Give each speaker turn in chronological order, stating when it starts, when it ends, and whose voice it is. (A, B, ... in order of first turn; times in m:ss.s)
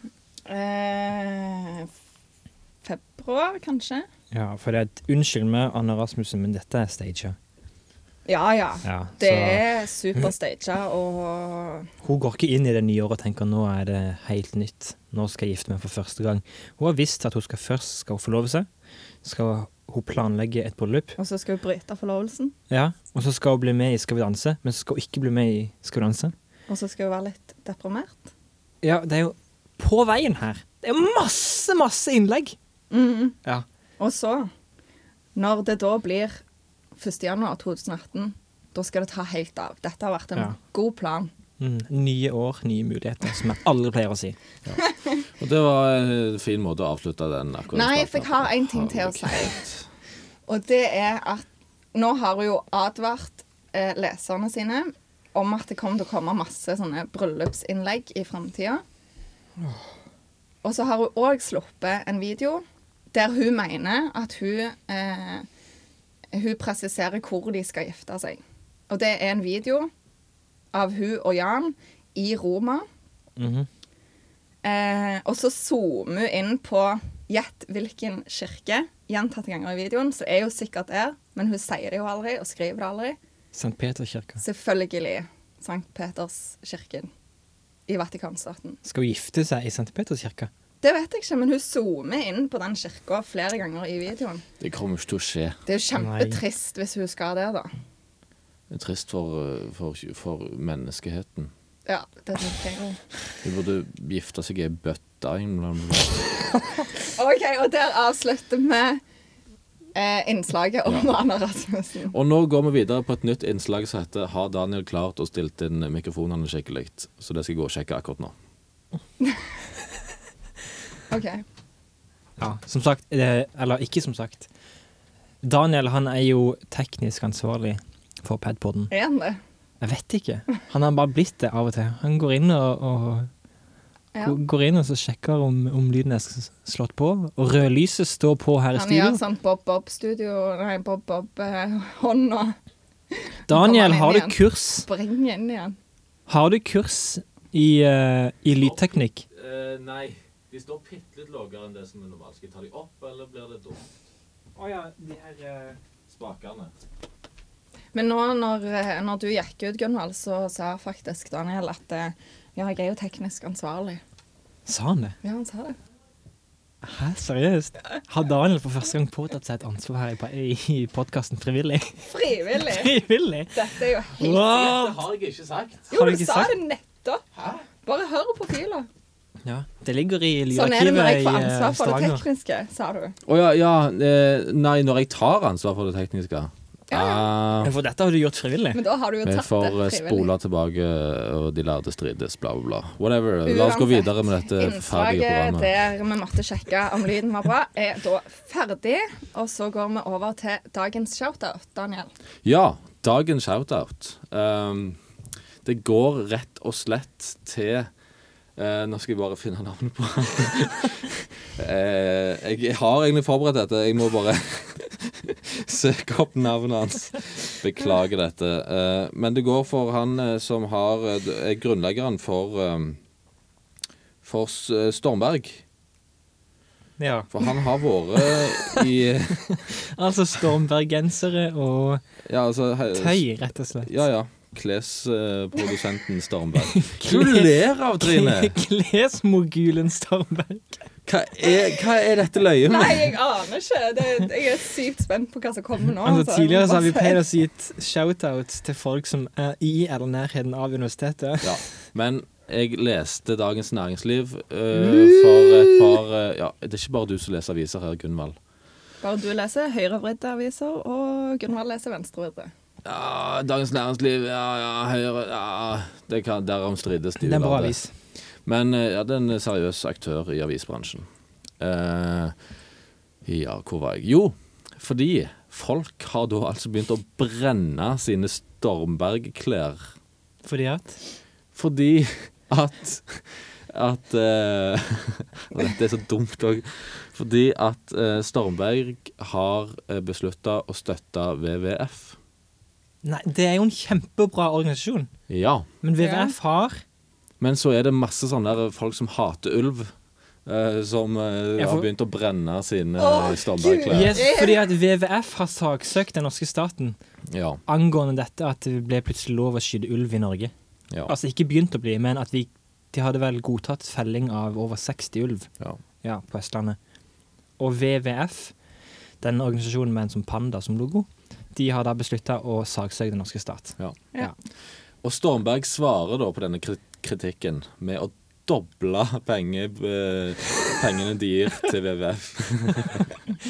0:00.4-0:01.9 A
0:02.8-0:04.1 A
0:04.3-0:07.4 B
0:08.3-0:11.9 A
0:08.8-0:09.6 B
0:12.0-0:18.7 B
0:19.2-0:21.2 B
0:21.2-0:22.6 A
0:22.7-0:26.3 B
0:26.7-0:28.3 A
0:28.8-0:32.6 B
0:32.9-0:33.4 A
0:34.0-0:34.5 A
0:35.4-0:36.4 A
0:37.0-0:41.3 A
0:41.6-0:44.4 B
0:45.4-0:49.9 C
0:47.7-0:49.6 A
0:50.5-0:58.8 A
1:00.6-1:05.5 A
1:06.3-1:09.9 A
1:10.7-1:12.9 A
1:13.4-1:13.7 B
1:14.6-1:23.2 A
1:23.6-1:24.4 B
1:24.4-1:27.1 A
1:27.9-1:28.8 A
1:28.8-1:30.5 B
1:30.8-1:34.4 A
1:34.6-1:35.6 C
1:35.7-1:37.7 A
1:36.0-1:36.4 B
1:38.7-1:41.5 C
1:41.9-1:43.0 A
1:43.4-1:46.3 C
1:47.1-1:49.0 A
1:50.0-1:52.1 A
1:52.1-1:58.3 C
2:01.1-2:01.4 A
2:02.4-2:04.5 B
2:05.4-2:08.9 B
2:08.9-2:09.4 A
2:09.8-2:13.3 B
2:14.2-2:19.2 B
2:18.8-2:22.6 A
2:23.1-2:25.8 A
2:23.5-2:24.9 B
2:26.3-2:29.3 B
2:28.6-2:33.9 C
2:34.6-2:35.8 B
2:36.1-2:36.7 C
2:37.9-2:44.0 A
2:44.7-2:45.2 B
2:45.2-2:45.8 A
2:46.8-2:55.0 B
2:52.1-2:52.9 A
2:53.5-2:54.6 A
2:54.5-2:55.9 C
2:55.9-2:56.5 B
2:55.9-2:57.2 A
2:57.4-2:57.6 C
2:57.8-2:58.9 A
2:59.4-3:02.2 B
3:00.5-3:03.2 A
3:03.3-3:07.7 C
3:06.9-3:07.3 A
3:07.6-3:08.8 B
3:08.7-3:10.3 A
3:09.2-3:15.7 C
3:13.5-3:22.1 A
3:22.4-3:25.0 C
3:25.6-3:27.9 C
3:28.6-3:43.0 C
3:44.2-3:45.6 C
3:47.0-3:47.5 B
3:47.3-3:49.5 C
3:48.2-3:48.9 B
3:49.5-3:52.0 B
3:52.2-3:53.2 C
3:52.9-3:53.9 B
3:53.8-3:58.5 C
3:56.7-4:00.8 B
4:01.1-4:03.2 C
4:02.7-4:07.2 A
4:06.0-4:11.6 B
4:11.4-4:18.4 C
4:14.8-4:15.9 B
4:19.0-4:22.5 A
4:22.8-4:31.1 C
4:27.2-4:27.9 B
4:31.6-4:32.4 C
4:33.2-4:39.9 C
4:40.4-4:41.0 B
4:41.6-4:52.2 C
4:53.0-4:55.1 B
4:55.3-4:55.7 C
4:55.8-4:56.8 B
4:56.0-4:56.3 A
4:57.4-4:59.9 C
5:00.4-5:04.2 C
5:01.6-5:01.9 B
5:03.0-5:04.6 A
5:03.9-5:07.0 B
5:07.3-5:07.6 C
5:07.7-5:10.5 B
5:11.1-5:15.5 B
5:16.0-5:16.8 B
5:17.6-5:18.5 B
5:19.2-5:24.3 B
5:25.0-5:33.1 C